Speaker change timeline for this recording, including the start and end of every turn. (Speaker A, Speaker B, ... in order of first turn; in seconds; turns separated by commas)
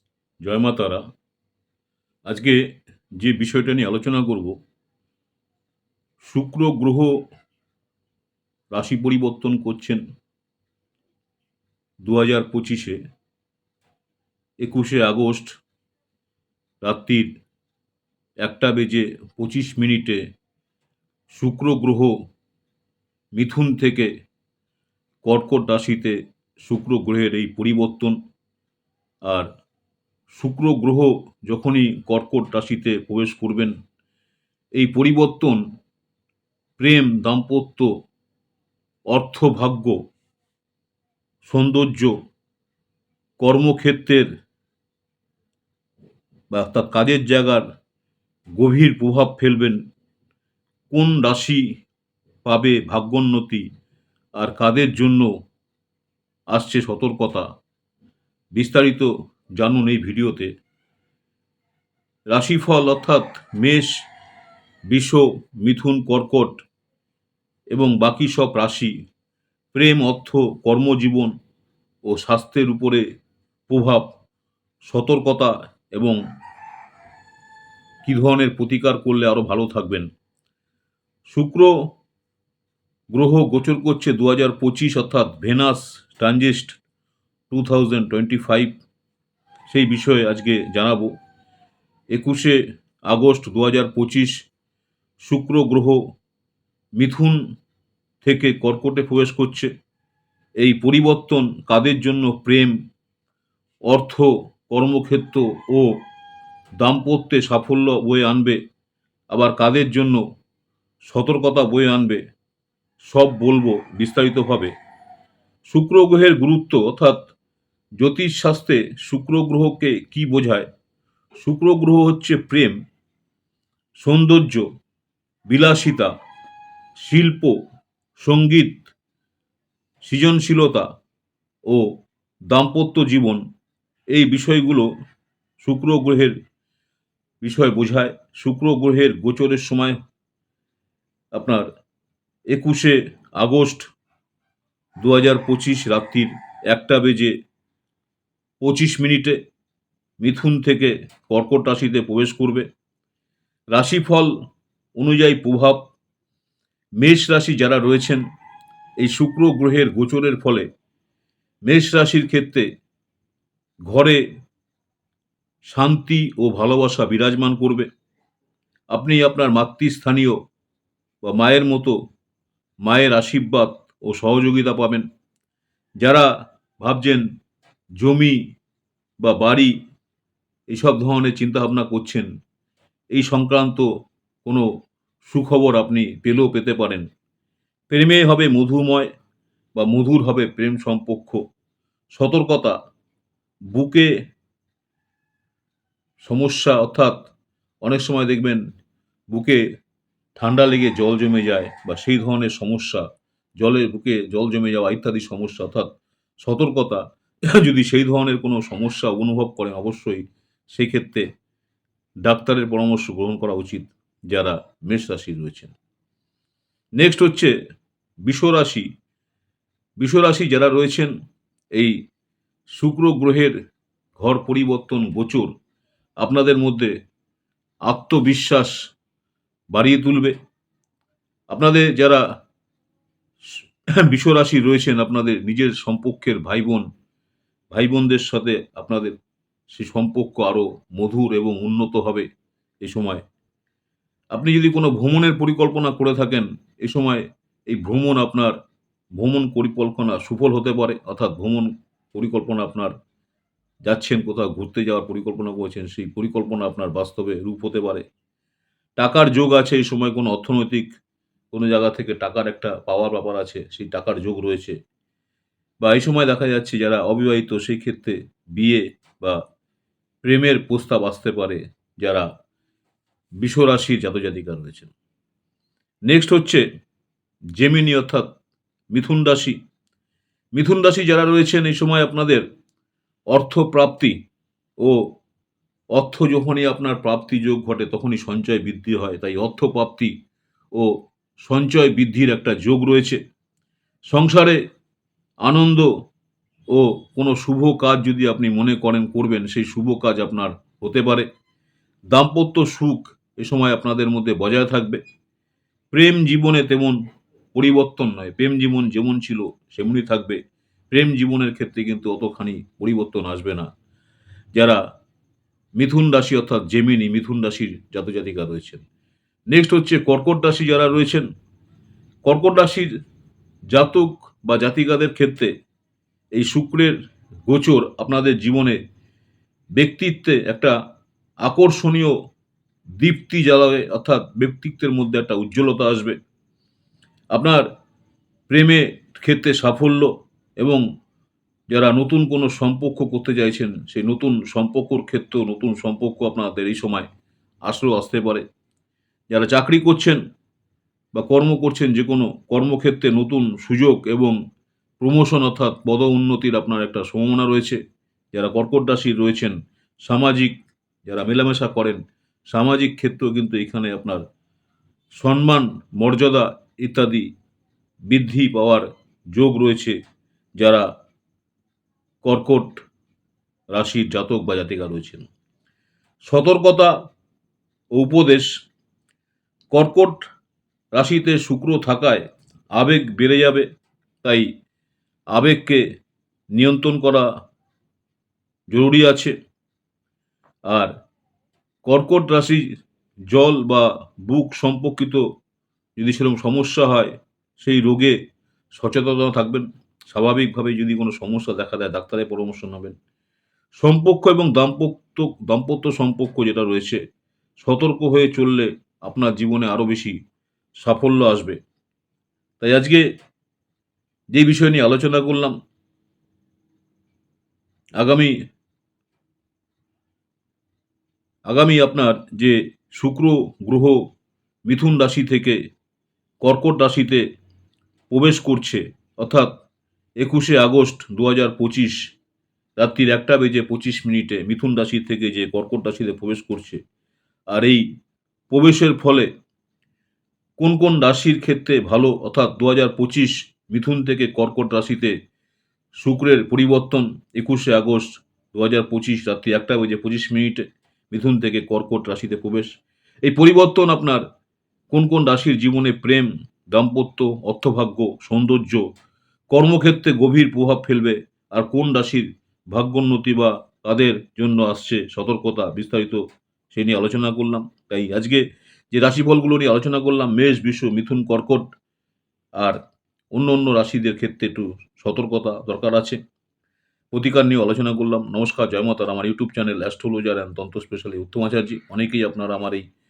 Speaker A: 0.4-1.0, Speaker A: 2.3-2.6, Speaker A: 3.2-4.6, Speaker A: 6.2-7.2, Speaker A: 8.7-10.0, Speaker A: 12.0-13.0, Speaker A: 14.6-15.5, Speaker A: 16.8-17.3, Speaker A: 18.4-20.2, Speaker A: 21.3-22.2, Speaker A: 23.4-24.1, Speaker A: 25.2-28.2, Speaker A: 30.3-33.8, Speaker A: 34.8-35.6, Speaker A: 36.8-37.9, Speaker A: 39.1-40.0, Speaker A: 41.4-42.2, Speaker A: 43.4-44.3, Speaker A: 46.5-47.6, Speaker A: 48.6-49.8, Speaker A: 50.9-51.6, Speaker A: 52.5-53.7, Speaker A: 54.4-55.3, Speaker A: 56.5-57.5, Speaker A: 58.5-60.5, Speaker A: 62.3-63.9, Speaker A: 64.9-66.6, Speaker A: 67.7-68.9, Speaker A: 69.7-71.3, Speaker A: 72.1-73.0, Speaker A: 73.7-74.1, Speaker A: 74.9-76.2, Speaker A: 78.0-80.1, Speaker A: 81.3-81.7, Speaker A: 83.1-86.8, Speaker A: 87.5-88.8, Speaker A: 89.7-91.1, Speaker A: 92.1-94.4, Speaker A: 95.2-96.0, Speaker A: 97.0-97.4, Speaker A: 98.2-99.7, Speaker A: 100.6-102.8, Speaker A: 103.9-105.9, Speaker A: 106.8-108.6, Speaker A: 109.3-110.2, Speaker A: 111.1-112.2, Speaker A: 113.1-114.7, Speaker A: 115.7-117.3, Speaker A: 118.0-120.7, Speaker A: 121.4-122.8, Speaker A: 124.0-124.7, Speaker A: 125.5-126.1, Speaker A: 127.0-127.6, Speaker A: 128.2-128.9, Speaker A: 130.1-130.9, Speaker A: 132.5-133.4, Speaker A: 134.1-134.9, Speaker A: 135.6-136.4, Speaker A: 137.4-140.0, Speaker A: 141.3-141.7, Speaker A: 142.5-143.8, Speaker A: 145.0-147.3, Speaker A: 148.6-149.4, Speaker A: 150.2-152.7, Speaker A: 153.7-154.3, Speaker A: 155.0-155.9, Speaker A: 157.0-158.2, Speaker A: 159.0-160.7, Speaker A: 161.7-162.7, Speaker A: 163.9-164.2, Speaker A: 165.7-167.9, Speaker A: 168.9-170.4, Speaker A: 171.2-172.0, Speaker A: 172.8-175.1, Speaker A: 176.0-177.2, Speaker A: 178.0-178.4, Speaker A: 179.2-179.8, Speaker A: 180.7-182.3, Speaker A: 183.1-183.9, Speaker A: 185.2-187.1, Speaker A: 187.9-189.1, Speaker A: 189.8-191.4, Speaker A: 192.1-192.8, Speaker A: 193.7-194.1, Speaker A: 196.2-197.2, Speaker A: 197.8-198.6, Speaker A: 199.3-199.6, Speaker A: 200.4-203.1, Speaker A: 203.6-205.9, Speaker A: 206.4-211.3, Speaker A: 212.2-215.7, Speaker A: 217.0-217.5, Speaker A: 218.2-218.9, Speaker A: 220.0-221.1, Speaker A: 222.8-223.6, Speaker A: 224.2-225.5, Speaker A: 226.2-226.9, Speaker A: 227.9-228.7, Speaker A: 229.7-230.3, Speaker A: 231.5-232.2, Speaker A: 233.6-236.9, Speaker A: 237.7-239.2, Speaker A: 239.7-242.3, Speaker A: 242.8-243.2, Speaker A: 244.3-248.6, Speaker A: 249.2-252.9, Speaker A: 253.9-258.0, Speaker A: 259.0-260.9, Speaker A: 261.5-264.8, Speaker A: 265.8-269.4, Speaker A: 270.2-272.3, Speaker A: 273.4-274.9, Speaker A: 276.1-276.6, Speaker A: 277.6-278.3, Speaker A: 278.9-279.6, Speaker A: 280.6-282.4, Speaker A: 283.3-284.2, Speaker A: 284.8-285.1, Speaker A: 285.9-290.1, Speaker A: 290.7-293.2, Speaker A: 294.1-294.6, Speaker A: 295.4-295.9, Speaker A: 296.7-301.3, Speaker A: 302.1-305.0, Speaker A: 305.9-307.0, Speaker A: 307.5-310.4, Speaker A: 310.9-313.7, Speaker A: 314.5-314.8, Speaker A: 315.8-318.8, Speaker A: 319.5-321.3, Speaker A: 322.2-322.9, Speaker A: 323.7-325.5, Speaker A: 326.3-327.0, Speaker A: 327.5-328.8, Speaker A: 329.8-330.7, Speaker A: 331.4-332.1, Speaker A: 333.0-336.2, Speaker A: 337.3-337.6, Speaker A: 338.5-340.8, Speaker A: 341.7-347.1, Speaker A: 347.7-348.4, Speaker A: 349.3-350.2, Speaker A: 351.1-354.4, Speaker A: 355.0-357.8, Speaker A: 358.3-364.2, Speaker A: 365.2-367.3, Speaker A: 368.1-370.0, Speaker A: 370.6-370.9, Speaker A: 372.2-372.8, Speaker A: 373.7-375.3, Speaker A: 376.3-376.9, Speaker A: 377.9-378.5, Speaker A: 379.7-380.2, Speaker A: 380.9-382.2, Speaker A: 382.8-383.7, Speaker A: 384.2-384.5, Speaker A: 385.3-385.8, Speaker A: 386.5-387.3, Speaker A: 388.7-389.3, Speaker A: 391.9-392.7, Speaker A: 393.3-395.2, Speaker A: 396.0-398.2, Speaker A: 398.8-402.9, Speaker A: 403.8-407.0, Speaker A: 407.6-410.2, Speaker A: 410.8-411.6, Speaker A: 412.6-413.1, Speaker A: 414.3-415.6, Speaker A: 418.0-418.3, Speaker A: 421.5-424.1, Speaker A: 424.7-425.6, Speaker A: 426.4-427.2, Speaker A: 428.1-429.5, Speaker A: 430.2-432.1, Speaker A: 432.8-436.8, Speaker A: 437.5-437.9, Speaker A: 438.5-439.3, Speaker A: 440.6-445.1, Speaker A: 446.0-452.7, Speaker A: 453.2-454.2, Speaker A: 454.9-458.8, Speaker A: 459.5-471.6, Speaker A: 473.3-476.2, Speaker A: 477.1-482.8